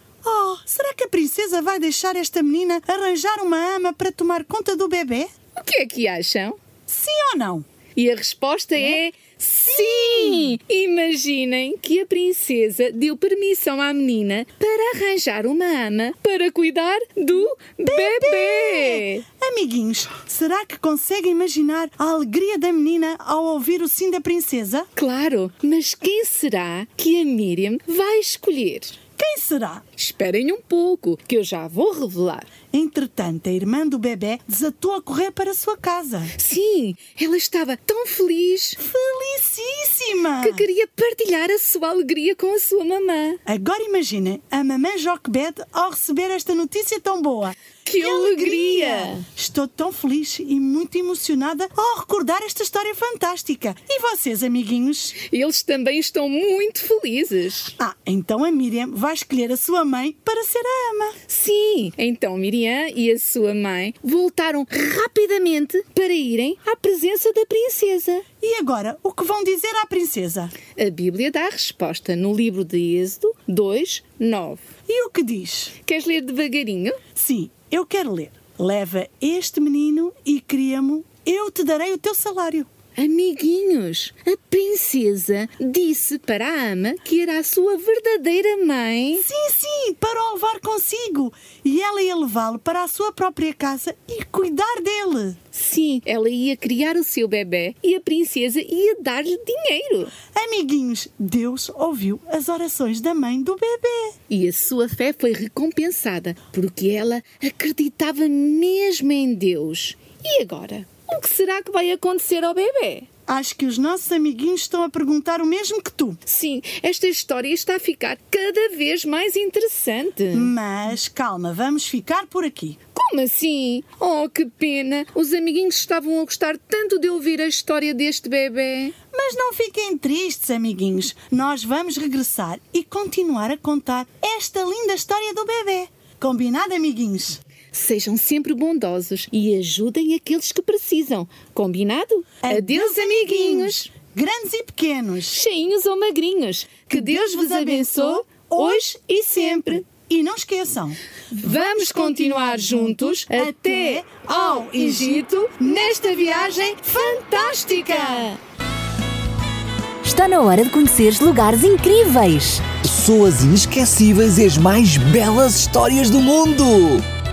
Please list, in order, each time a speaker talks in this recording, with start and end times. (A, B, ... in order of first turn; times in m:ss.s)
0:00.2-0:05.3 A
0:05.6-0:06.6 B
0:06.9-0:07.6 A
0:07.9-0:19.2 B
0:09.7-0:10.6 A
0:17.8-0:24.9 A
0:25.0-0:29.0 B
0:29.2-0:29.8 A
0:30.0-0:32.5 B
0:32.7-0:36.3 A
0:36.4-0:38.8 B
0:38.8-0:40.6 A
0:40.4-0:43.4 B
0:43.4-0:55.2 A
0:47.8-0:49.2 B
0:55.2-0:57.7 B
0:57.8-1:01.2 A
1:01.3-1:08.2 B
1:08.4-1:10.5 A
1:10.7-1:14.6 B
1:14.9-1:15.7 A
1:15.8-1:17.0 B
1:17.1-1:22.7 A
1:23.0-1:29.2 B
1:29.1-1:35.4 A
1:35.5-1:40.1 B
1:40.3-1:44.1 A
1:44.3-1:53.1 B
1:53.3-1:56.2 A
1:56.3-2:00.5 B
2:00.3-2:02.8 A
2:02.9-2:09.0 B
2:09.1-2:17.4 A
2:17.7-2:23.9 B
2:22.4-2:25.4 A
2:25.3-2:29.8 B
2:26.9-2:38.3 A
2:31.3-2:38.4 B
2:40.0-2:42.7 C
2:42.8-2:47.0 D